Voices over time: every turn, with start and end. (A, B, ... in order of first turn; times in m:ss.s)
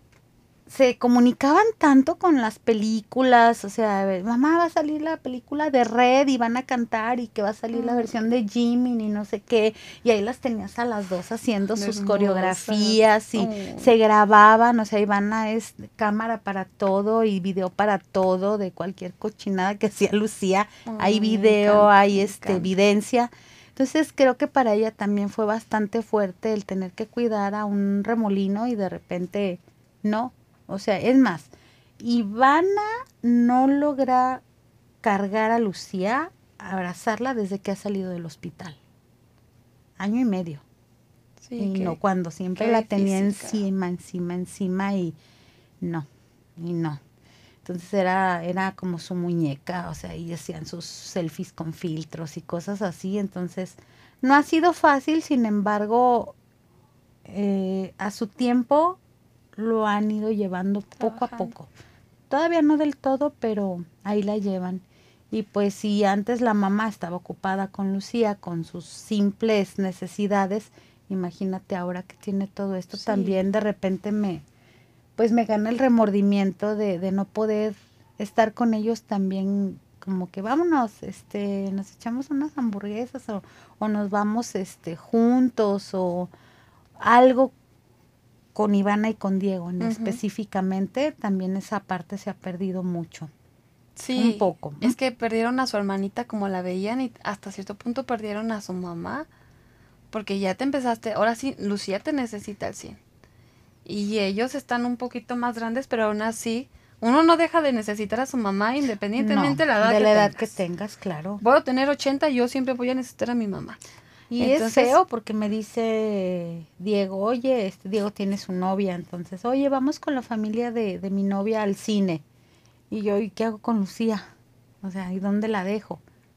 0:00.7-0:34.4 A
0:07.7-0:08.1 B
0:11.8-0:13.9 B
0:20.9-0:22.7 B
0:35.0-0:38.8 A
0:40.0-0:40.6 A
0:41.4-0:42.0 B
0:41.6-0:45.2 A
0:42.6-0:43.6 B
0:45.8-0:47.0 A
0:47.6-0:56.4 A
0:57.3-0:59.0 A
0:59.6-1:01.7 A
1:01.0-1:01.5 B
1:02.3-1:14.4 A
1:12.9-1:13.4 B
1:15.2-1:26.3 A
1:27.0-1:27.5 A
1:28.6-1:33.3 A
1:29.8-1:30.2 B
1:34.0-1:39.3 B
1:34.2-1:35.0 A
1:40.1-1:43.0 B
1:43.8-1:50.5 B
1:49.2-1:51.4 A
1:51.4-1:53.8 B
1:54.3-2:02.2 A
1:54.4-1:55.0 B
2:02.9-2:04.3 A
2:04.8-2:06.0 A